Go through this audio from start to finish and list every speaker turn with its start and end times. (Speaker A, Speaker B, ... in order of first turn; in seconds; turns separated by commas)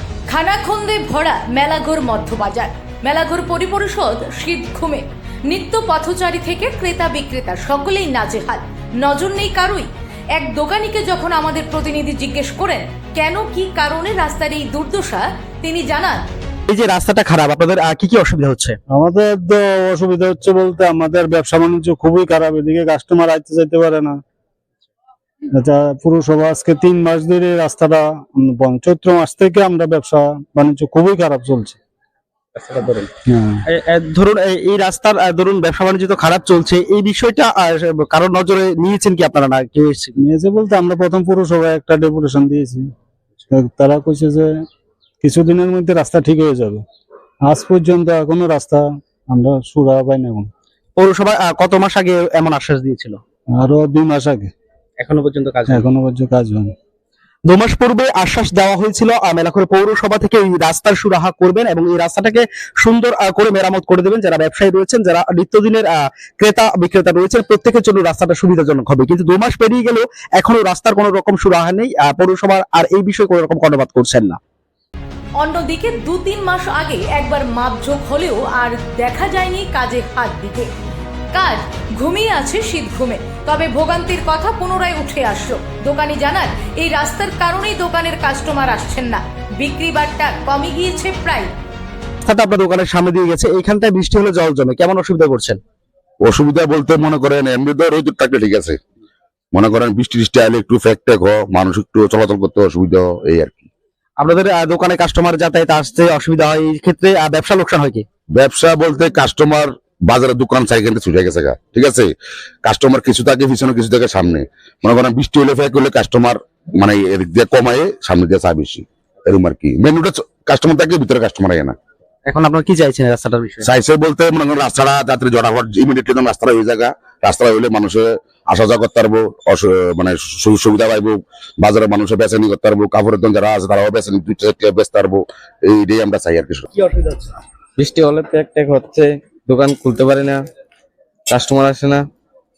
Speaker A: 0.3-16.2, Speaker B: 16.7-18.8, Speaker C: 18.9-24.2, Speaker C: 25.6-31.8, Speaker B: 32.6-33.1, Speaker C: 33.3-33.6, Speaker B: 33.7-40.2, Speaker C: 40.2-42.9, Speaker C: 43.5-44.5, Speaker C: 45.2-46.9, Speaker C: 47.4-50.5, Speaker B: 51.0-53.2, Speaker C: 53.5-54.5, Speaker B: 55.0-55.9, Speaker C: 55.7-56.7, Speaker B: 57.5-74.4, Speaker A: 75.4-80.7, Speaker A: 81.3-91.5, Speaker B: 92.2-95.6, Speaker D: 96.3-98.8, Speaker D: 99.6-103.5, Speaker B: 104.2-108.0, Speaker D: 108.4-112.0, Speaker D: 112.7-121.8, Speaker B: 122.3-123.7, Speaker D: 123.7-136.7, Speaker B: 136.7-137.4, Speaker E: 137.8-140.4, Speaker E: 141.3-142.1